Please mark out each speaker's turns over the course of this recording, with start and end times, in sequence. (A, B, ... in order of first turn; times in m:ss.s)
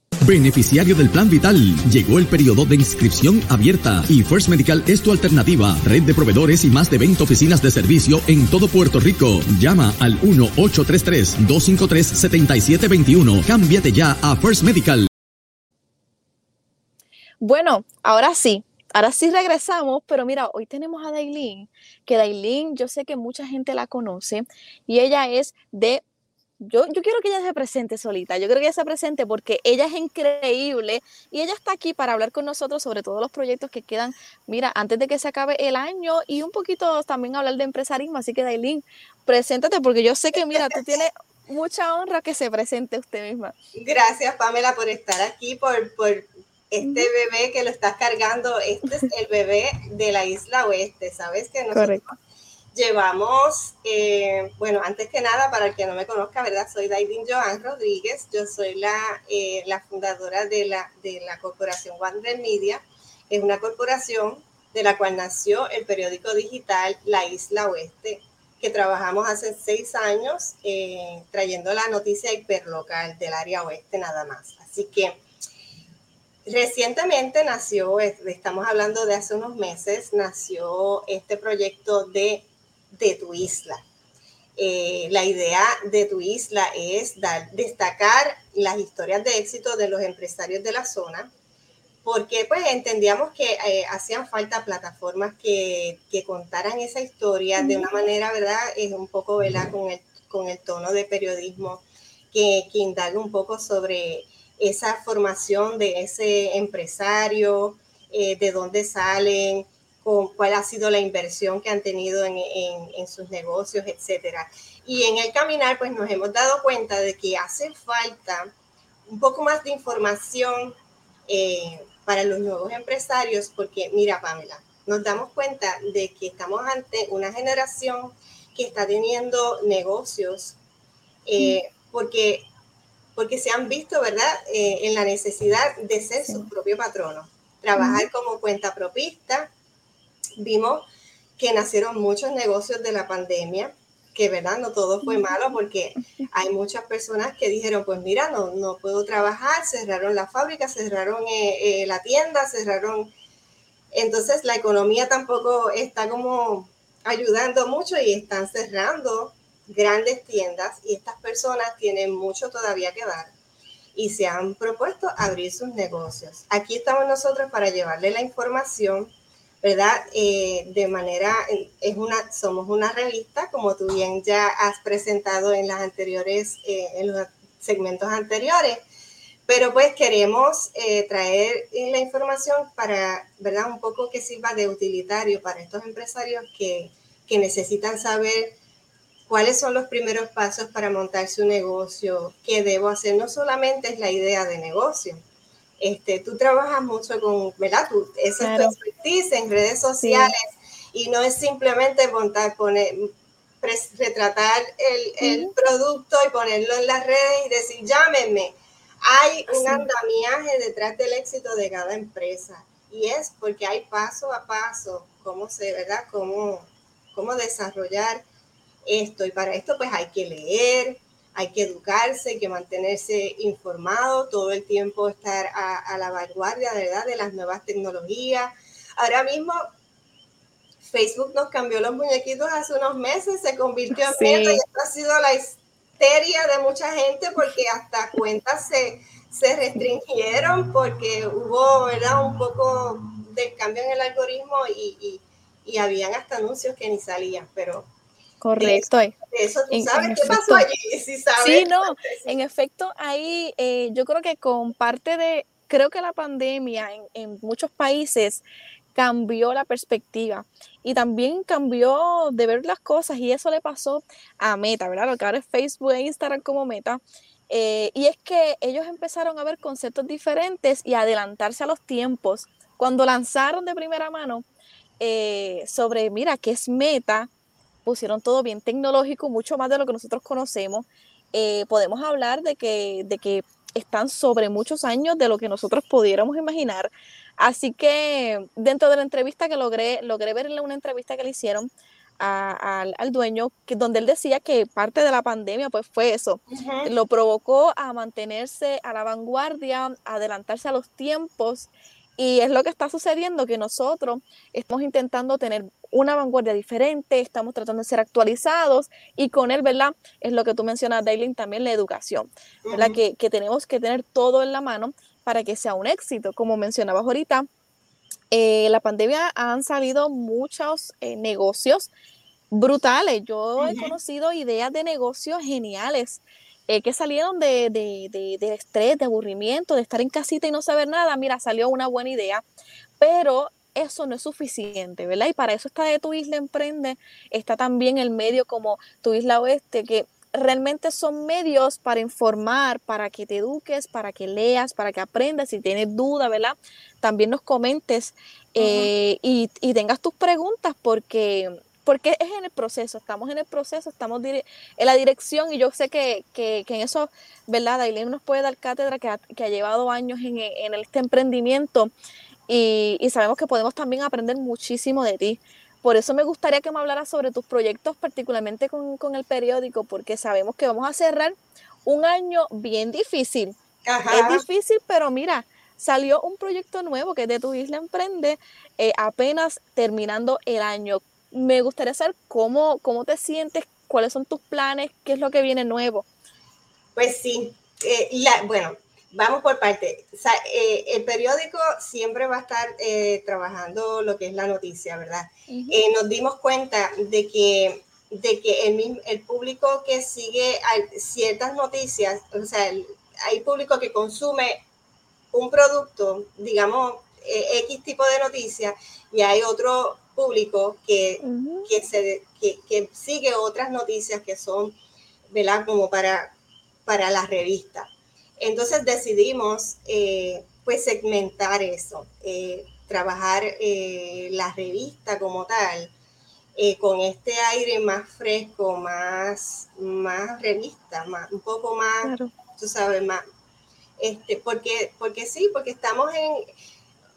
0:00.2-0:15.1 A
0:17.4-0:26.0 B
0:26.6-0:43.5 B
0:43.8-0:52.2 C
0:46.8-0:47.1 B
0:51.7-0:52.0 B
0:52.8-1:15.2 C
1:16.5-1:23.8 C
1:24.6-1:31.3 C
1:32.0-1:58.5 C
1:37.6-1:37.9 B
1:59.1-2:00.8 C
2:01.3-2:10.6 C
2:11.3-2:12.5 C
2:13.2-2:19.5 C
2:17.8-2:18.1 B
2:20.4-2:20.9 C
2:21.4-2:33.1 C
2:25.0-2:25.4 B
2:33.9-2:43.3 C
2:44.0-2:49.1 C
2:49.6-2:58.8 C
2:59.5-3:08.6 C
3:09.3-3:15.2 C
3:15.8-3:20.4 C
3:18.4-3:18.8 B
3:20.0-3:20.3 B
3:20.9-3:23.1 C
3:23.6-3:38.2 C
3:25.2-3:25.5 B
3:29.5-3:29.9 B
3:38.9-3:49.7 C
3:50.8-4:07.9 C
3:54.0-3:54.6 B
4:08.4-4:09.2 B
4:08.6-4:12.3 C
4:09.7-4:10.6 B
4:11.4-4:34.4 B
4:35.0-4:37.3 B
4:37.8-4:51.7 B
4:52.2-5:17.5 B
4:56.5-4:56.9 C
5:12.7-5:13.0 C
5:18.3-5:21.9 B
5:22.5-5:32.4 B
5:23.6-5:24.0 C
5:33.0-6:01.9 B
5:48.6-5:48.9 C
6:02.5-6:13.5 B
6:13.8-6:14.4 C
6:14.1-6:26.1 B
6:27.0-6:44.6 C
6:35.5-6:35.8 B
6:45.3-6:54.8 C
6:51.2-6:51.7 B
6:55.3-6:56.3 C
6:56.9-6:57.9 C
6:58.4-7:05.9 C
7:06.6-7:13.2 C
7:12.0-7:12.3 B
7:14.0-7:16.5 C